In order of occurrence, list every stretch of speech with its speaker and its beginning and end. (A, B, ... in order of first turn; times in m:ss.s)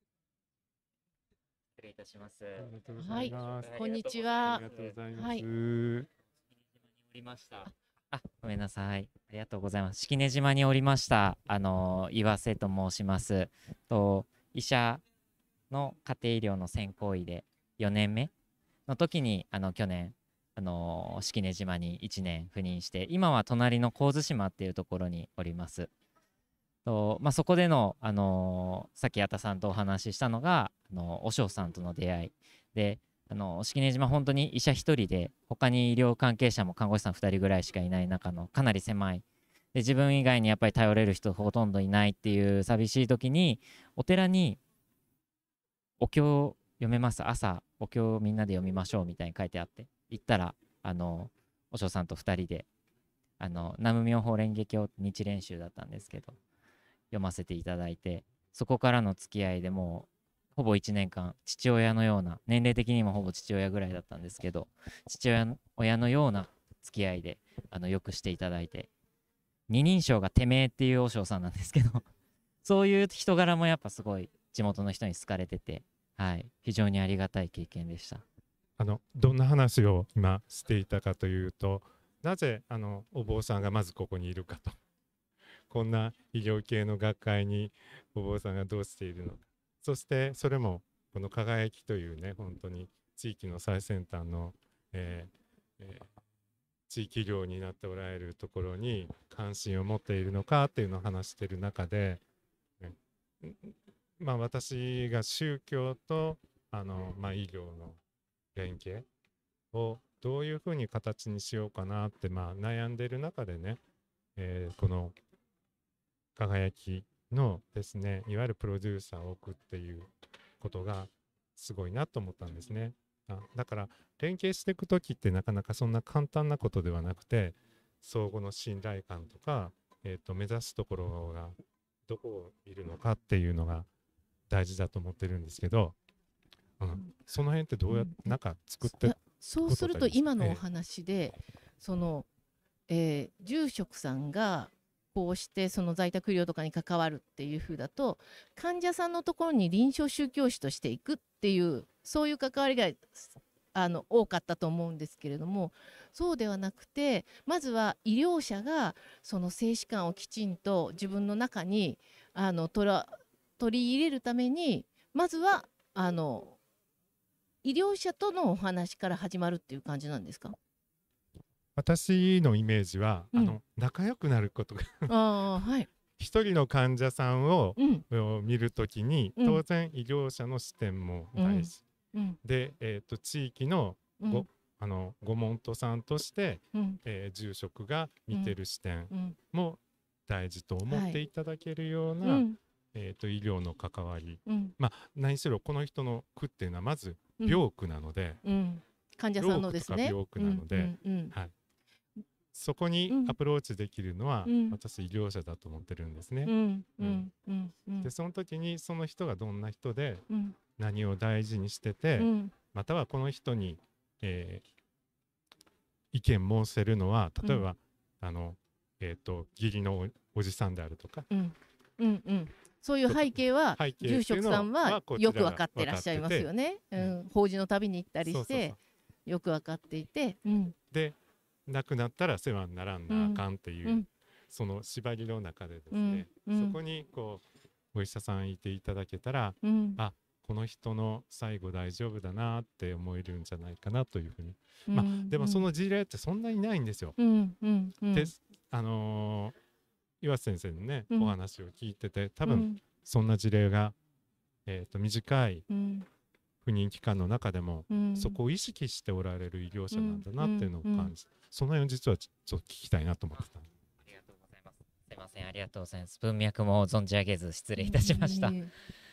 0:01.8-0:02.6 A
0:02.6-0:03.8 B
0:03.0-0:05.4 C
0:03.7-0:04.2 A
0:04.4-0:06.1 B
0:07.1-0:15.0 A
0:15.7-0:18.3 A
0:18.9-0:25.9 A
0:26.8-0:44.6 A
0:46.0-0:52.7 A
0:53.4-0:56.4 A
0:57.1-1:08.9 A
1:09.7-1:12.0 A
1:12.6-1:18.2 A
1:18.8-1:24.8 B
1:25.7-1:36.1 B
1:36.9-1:42.2 B
1:42.8-1:48.0 B
1:48.5-1:49.0 B
1:49.7-1:53.8 B
1:54.4-1:55.2 B
1:56.4-2:13.9 B
2:14.5-2:16.0 B
2:16.8-2:20.6 B
2:17.9-2:18.3 C
2:18.9-2:22.3 C
2:22.9-2:46.6 C
2:47.6-2:50.6 C
2:51.8-2:55.1 B
2:55.1-2:55.9 C
2:56.2-3:01.8 B
2:57.8-2:58.0 C
3:01.4-3:02.4 C
3:02.4-3:18.4 B
3:04.2-3:04.4 C
3:06.7-3:07.0 C
3:09.1-3:09.4 C
3:10.9-3:11.2 C
3:12.2-3:12.6 C
3:14.5-3:14.7 C
3:18.4-3:21.3 C
3:19.4-3:21.5 B
3:22.5-3:27.3 B
3:23.1-3:23.4 C
3:24.4-3:24.8 C
3:26.4-3:28.1 C
3:28.0-3:34.6 B
3:30.3-3:30.6 C
3:32.2-3:32.5 C
3:36.1-3:41.3 B
3:41.3-3:50.8 C
3:43.1-3:47.1 B
3:48.2-3:48.8 B
3:50.9-4:07.2 B
3:53.1-3:54.0 C
3:55.9-3:56.8 C
3:59.6-4:00.0 C
4:04.9-4:05.6 C
4:07.2-4:08.3 C
4:08.1-4:09.6 B
4:10.2-4:14.0 B
4:12.4-4:12.8 C
4:14.6-4:15.6 B
4:15.7-4:16.0 C
4:16.6-4:23.7 B
4:17.9-4:18.4 C
4:19.9-4:21.1 C
4:24.0-4:28.6 A
4:27.8-4:28.7 C